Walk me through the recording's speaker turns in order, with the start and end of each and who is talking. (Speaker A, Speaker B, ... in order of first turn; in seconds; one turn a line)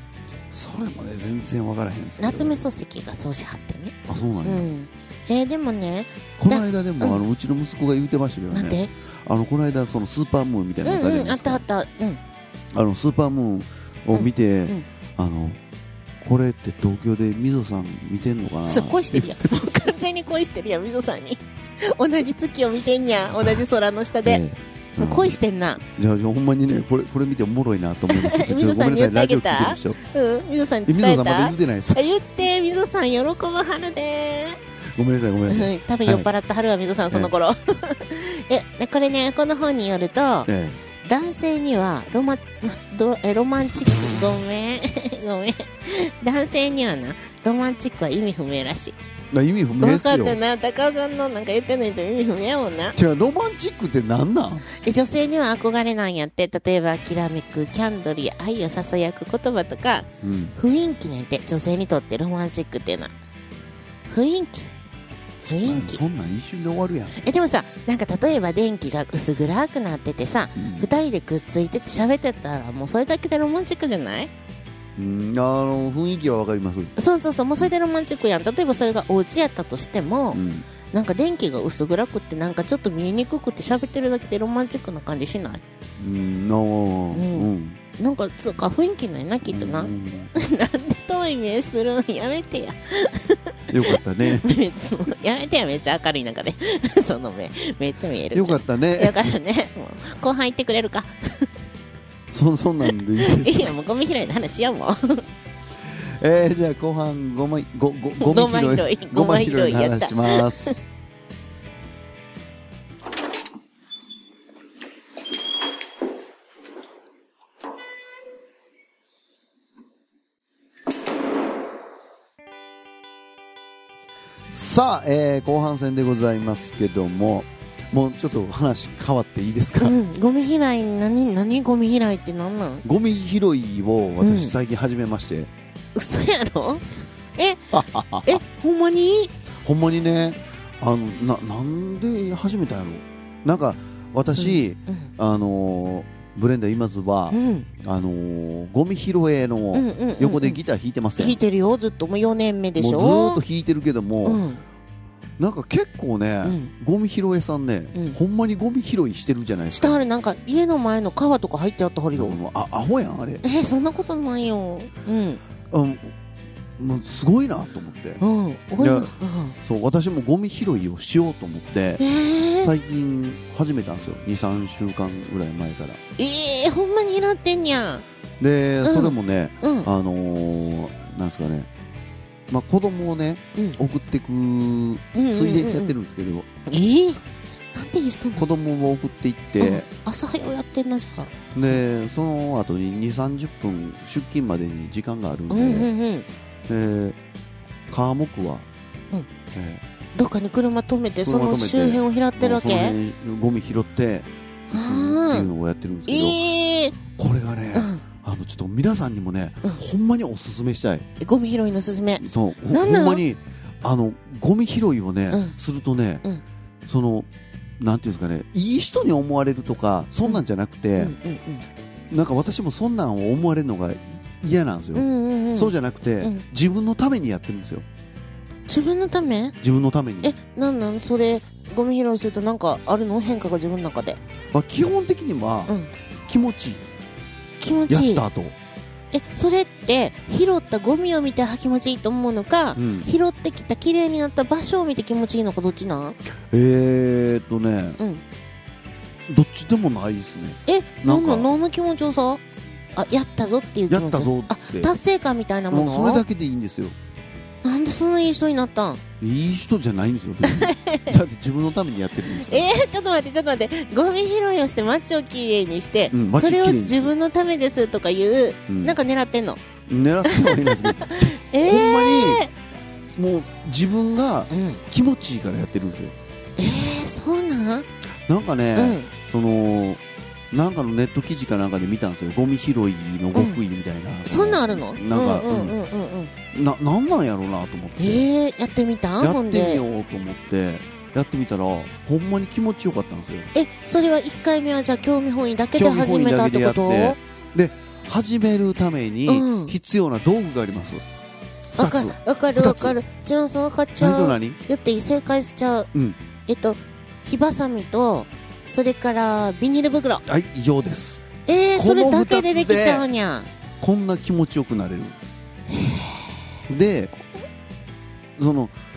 Speaker A: 0.5-2.6
Speaker B: 2.2-7.2
Speaker A: 4.1-4.7
Speaker A: 6.4-11.6
Speaker B: 8.5-8.9
Speaker B: 10.8-12.2
Speaker A: 12.7-15.6
Speaker B: 14.1-14.8
Speaker A: 16.2-19.8
Speaker B: 18.7-24.4
Speaker A: 24.2-30.0
Speaker B: 25.0-25.8
Speaker B: 28.1-34.6
Speaker A: 30.9-32.0
Speaker A: 35.0-36.3
Speaker B: 35.5-40.5
Speaker A: 40.5-40.8
Speaker B: 41.0-49.0
Speaker A: 49.3-50.4
Speaker B: 49.8-53.0
Speaker A: 52.9-54.7
Speaker B: 54.8-63.1
Speaker A: 60.2-60.5
Speaker B: 64.1-64.7
Speaker B: 65.4-66.0
Speaker A: 65.6-67.2
Speaker B: 67.1-74.3
Speaker A: 70.6-70.9
Speaker A: 75.0-76.9
Speaker B: 77.0-80.4
Speaker A: 80.3-80.7
Speaker B: 80.9-85.6
Speaker A: 86.0-87.8
Speaker B: 87.1-101.5
Speaker A: 89.5-90.3
Speaker A: 93.7-94.5
Speaker A: 98.3-99.2
Speaker A: 102.3-103.8
Speaker B: 103.2-105.2
Speaker A: 105.8-110.8
Speaker B: 108.2-110.8
Speaker A: 124.5-130.0
Speaker B: 129.8-132.8
Speaker A: 132.8-135.5
Speaker B: 134.2-134.5
Speaker B: 135.9-137.7
Speaker A: 137.7-138.4
Speaker B: 138.2-139.3
Speaker A: 139.6-151.4
Speaker B: 144.4-145.1
Speaker B: 147.3-147.7
Speaker B: 149.7-150.6
Speaker B: 151.2-153.4
Speaker A: 152.8-154.4
Speaker B: 154.2-154.6
Speaker A: 155.4-160.0
Speaker B: 156.4-156.7
Speaker B: 159.7-162.4
Speaker A: 162.1-163.4
Speaker B: 163.4-165.4
Speaker A: 165.7-166.1
Speaker A: 166.8-168.2
Speaker B: 168.2-169.6
Speaker A: 168.8-172.0
Speaker B: 172.0-172.7
Speaker A: 172.6-176.0
Speaker B: 176.2-178.1
Speaker A: 178.4-181.7
Speaker B: 178.8-179.9
Speaker A: 182.5-186.5
Speaker B: 185.1-185.9
Speaker B: 186.7-187.2
Speaker B: 187.7-188.5
Speaker A: 188.4-189.9
Speaker B: 189.6-191.3
Speaker A: 191.6-195.9
Speaker B: 195.5-196.3
Speaker A: 196.7-197.2
Speaker A: 197.9-198.7
Speaker A: 199.5-199.8
Speaker B: 200.2-203.0
Speaker A: 201.2-206.4
Speaker B: 204.7-205.5
Speaker B: 206.1-207.0
Speaker A: 207.1-211.1
Speaker B: 207.7-208.0
Speaker B: 211.2-213.2
Speaker A: 212.2-216.2
Speaker A: 216.8-217.3
Speaker A: 217.8-221.1
Speaker B: 221.0-221.7
Speaker A: 222.1-227.9
Speaker B: 224.9-226.4
Speaker B: 228.7-229.6
Speaker A: 229.6-230.3
Speaker B: 230.2-234.2
Speaker A: 234.5-235.7
Speaker A: 236.3-236.8
Speaker B: 237.6-238.2
Speaker A: 237.9-238.6
Speaker B: 239.1-246.2
Speaker A: 242.8-243.1
Speaker A: 246.5-248.0
Speaker A: 249.3-251.5
Speaker B: 250.7-252.4
Speaker B: 252.9-256.2
Speaker A: 253.9-254.9
Speaker A: 255.7-256.9
Speaker B: 257.6-259.0
Speaker A: 259.2-262.8
Speaker B: 260.4-261.1
Speaker B: 262.4-269.6
Speaker A: 266.1-267.1
Speaker A: 268.7-269.0
Speaker A: 269.9-272.4
Speaker B: 270.2-272.5
Speaker A: 273.2-276.2
Speaker B: 274.5-274.8
Speaker B: 276.6-277.9
Speaker A: 278.3-285.8
Speaker B: 278.8-279.1
Speaker B: 283.3-283.6
Speaker B: 284.3-286.3
Speaker A: 286.5-288.3
Speaker B: 288.0-289.8
Speaker A: 289.2-293.5
Speaker B: 293.5-297.2
Speaker A: 295.8-301.0
Speaker B: 299.3-299.8
Speaker A: 301.7-303.0
Speaker B: 301.8-305.9
Speaker A: 304.0-304.6
Speaker B: 306.5-310.2
Speaker A: 310.3-311.2
Speaker B: 311.5-313.5
Speaker A: 311.8-313.1
Speaker A: 313.8-315.2
Speaker B: 315.7-316.4
Speaker A: 316.7-317.1
Speaker A: 318.4-318.7